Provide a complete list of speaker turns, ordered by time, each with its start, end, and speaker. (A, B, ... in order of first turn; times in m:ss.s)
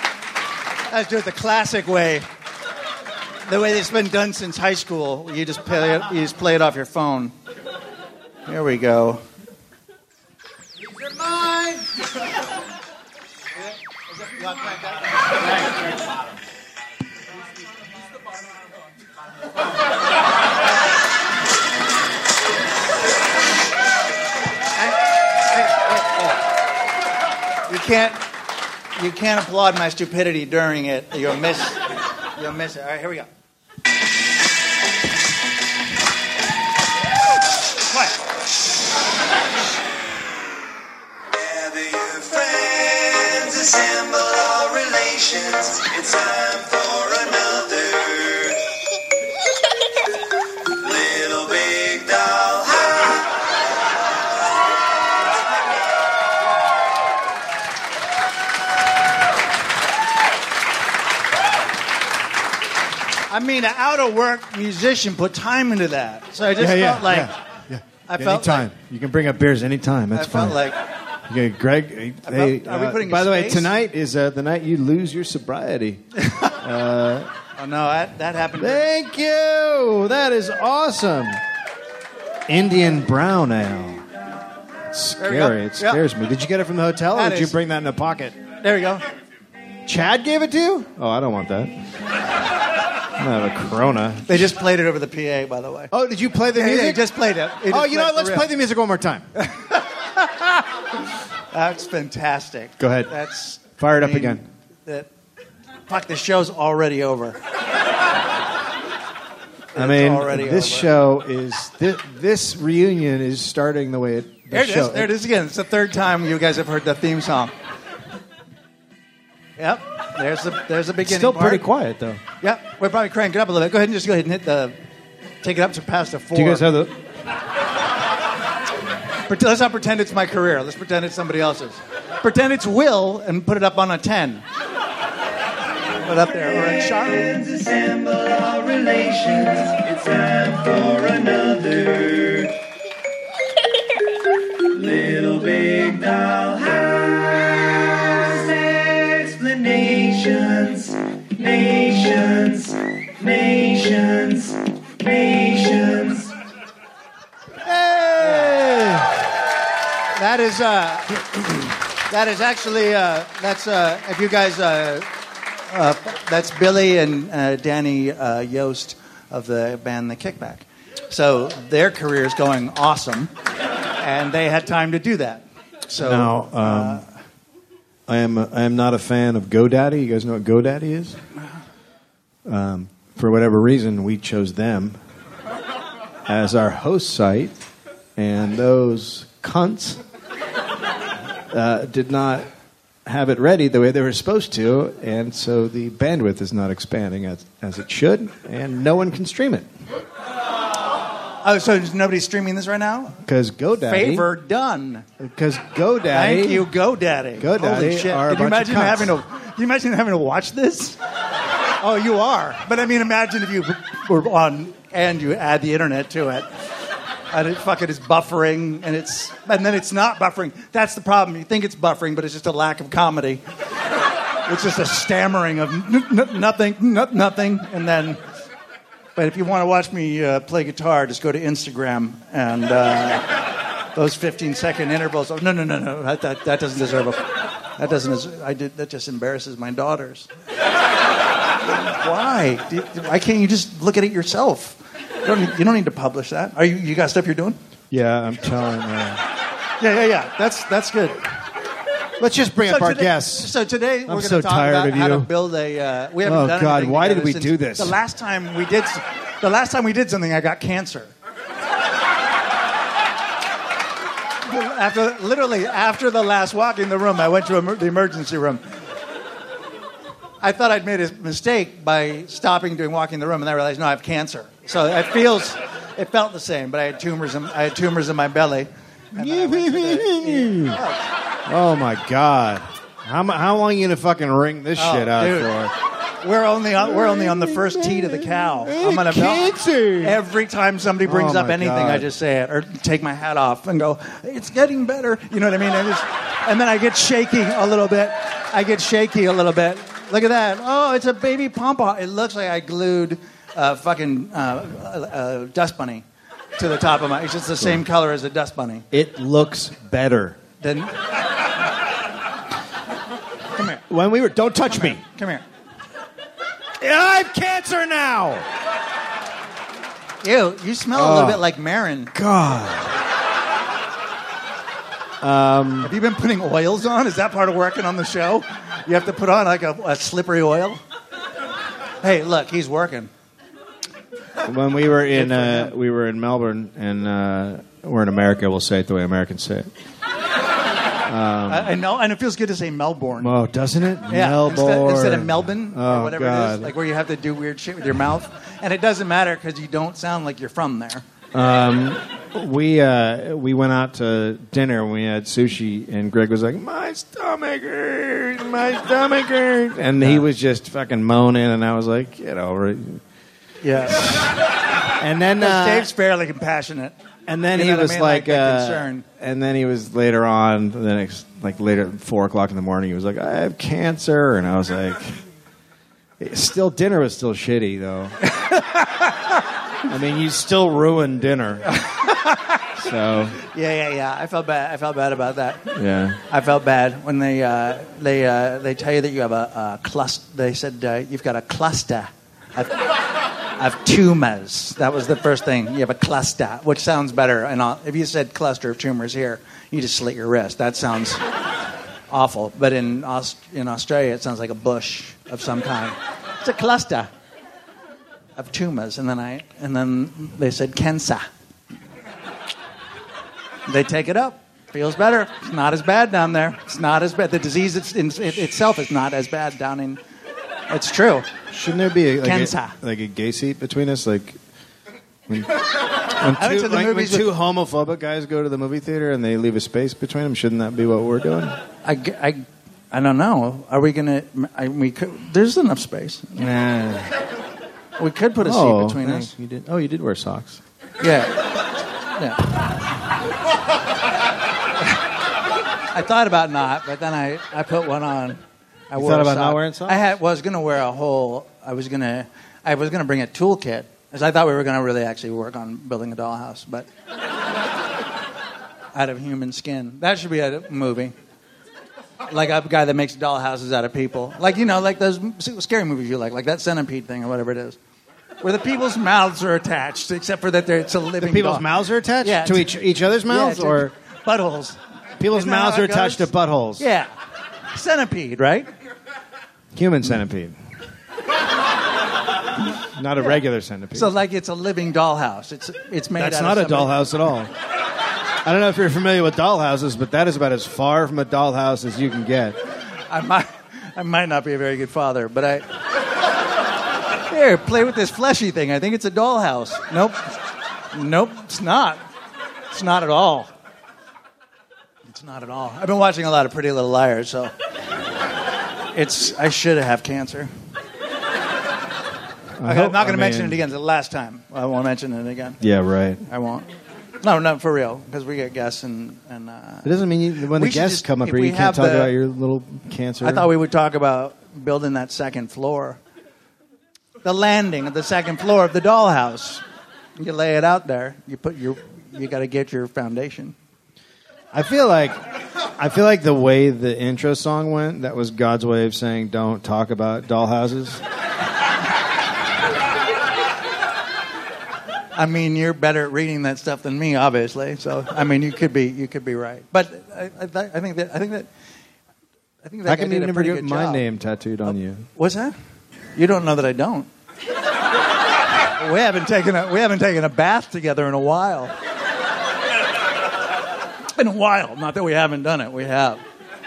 0:00.9-0:02.2 A
0:03.5-0:07.3 A
0:08.5-0:09.2 A
0:25.5-0:26.3 A
0:27.7-0:28.2 A
0:28.9-0:31.8 A
0:32.4-0:33.3 A
0:41.3-0:48.6 B
0:50.7-0:53.4 B
1:03.3-1:07.3 A
1:06.6-1:10.6 C
1:08.1-1:08.7 A
1:10.1-1:10.8 A
1:11.3-1:17.3 C
1:12.2-1:13.7 A
1:17.6-1:18.9 A
1:18.6-1:21.4 C
1:22.5-1:24.0 C
1:24.9-1:28.4 C
1:25.2-1:26.0 A
1:27.1-1:27.6 A
1:28.6-1:29.0 A
1:29.8-1:31.8 C
1:33.2-1:34.4 C
1:34.3-1:35.9 A
1:35.9-1:37.0 C
1:36.5-1:38.5 A
1:37.6-1:39.3 C
1:39.4-1:40.5 A
1:41.5-1:45.1 A
1:42.8-1:43.1 C
1:43.8-1:44.4 C
1:45.9-1:47.4 A
1:49.7-1:50.9 A
1:49.7-1:55.1 C
1:54.5-1:57.5 A
1:59.6-2:01.6 A
2:01.0-2:02.2 C
2:02.4-2:04.8 A
2:05.4-2:06.6 A
2:06.3-2:06.9 C
2:09.3-2:14.4 A
2:16.0-2:17.3 A
2:16.5-2:22.5 B
2:24.7-2:36.3 B
2:37.6-2:39.2 C
2:38.2-2:38.8 A
2:40.1-2:41.4 A
2:42.0-2:45.1 A
2:45.7-2:53.3 A
2:54.0-2:57.1 A
2:56.0-2:57.0 C
2:58.1-3:01.2 C
3:02.4-3:05.0 C
3:06.3-3:07.6 C
3:08.2-3:10.0 C
3:11.5-3:12.5 C
3:13.0-3:19.7 C
3:21.4-3:23.2 A
3:23.2-3:24.3 C
3:23.8-3:25.0 A
3:25.2-3:26.7 C
3:26.1-3:31.0 A
3:27.4-3:29.1 C
3:31.8-3:36.5 A
3:37.3-3:43.4 A
3:44.4-3:48.2 A
3:49.2-3:53.3 A
3:53.9-4:00.3 A
4:01.8-4:07.6 A
4:07.9-4:09.2 C
4:09.8-4:11.2 A
4:12.2-4:13.5 C
4:12.6-4:21.1 A
4:14.1-4:15.3 C
4:16.2-4:18.0 C
4:24.4-4:28.6 A
4:30.4-4:41.0 A
4:39.1-4:40.8 C
4:41.5-4:45.7 C
4:44.8-4:45.5 A
4:46.2-5:06.0 A
4:46.8-4:50.2 C
4:51.0-4:52.1 C
5:06.6-5:08.8 A
5:08.9-5:10.4 C
5:10.6-5:10.9 A
5:13.5-5:13.8 A
5:13.9-5:15.0 C
5:14.7-5:15.4 A
5:16.8-5:18.4 C
5:20.2-5:22.1 A
5:20.9-5:21.4 C
5:22.1-5:23.0 C
5:25.2-5:25.9 C
5:25.8-5:30.8 A
5:32.0-5:33.1 A
5:34.4-5:39.7 C
5:35.1-5:35.7 A
5:41.0-5:41.7 C
5:41.5-5:43.3 A
5:43.2-5:46.7 C
5:44.1-5:51.0 A
5:51.3-6:03.0 C
6:03.6-6:04.4 A
6:05.0-6:05.9 C
6:05.4-6:06.9 A
6:07.3-6:15.2 C
6:07.5-6:09.0 A
6:16.2-6:18.1 C
6:18.3-6:19.1 A
6:19.8-6:21.7 C
6:21.7-6:22.6 A
6:22.8-6:23.4 C
6:23.4-6:25.6 A
6:25.7-6:26.2 C
6:26.3-6:32.8 A
6:33.6-6:41.2 A
6:42.1-6:47.1 A
6:48.4-6:51.3 A
6:53.7-7:00.0 A
7:00.7-7:01.3 A
7:01.5-7:04.4 C
7:02.2-7:02.7 A
7:05.3-7:11.6 C
7:06.3-7:07.3 A
7:11.8-7:16.4 A
7:16.4-7:17.1 C
7:18.0-7:19.3 A
7:18.4-7:20.6 C
7:21.0-7:21.6 A
7:22.1-7:22.6 A
7:25.9-7:36.9 A
7:29.0-7:30.0 C
7:38.9-7:41.1 A
7:42.3-7:47.8 A
7:48.4-7:51.7 A
7:51.2-7:53.9 C
7:52.2-7:54.8 A
7:55.2-7:56.8 C
7:55.3-7:57.1 A
7:57.7-7:58.7 A
7:59.7-8:00.6 C
8:03.0-8:04.1 C
8:03.9-8:06.9 A
8:06.2-8:07.5 C
8:08.4-8:12.6 C
8:13.1-8:15.6 A
8:17.3-8:20.3 A
8:20.9-8:22.0 A
8:22.7-8:23.5 A
8:25.1-8:27.5 A
8:28.9-8:30.5 A
8:32.6-8:33.6 C
8:32.6-8:35.6 A
8:35.6-8:36.2 C
8:36.3-8:42.1 A
8:39.8-8:43.5 C
8:43.2-8:46.0 A
8:47.2-8:49.6 A
8:50.2-8:53.5 A
8:54.5-8:55.2 C
8:55.8-9:01.0 C
9:05.1-9:11.5 A
9:12.6-9:14.0 A
9:12.8-9:15.1 C
9:14.7-9:15.6 A
9:16.2-9:17.1 A
9:18.8-9:21.7 A
9:24.1-9:26.2 A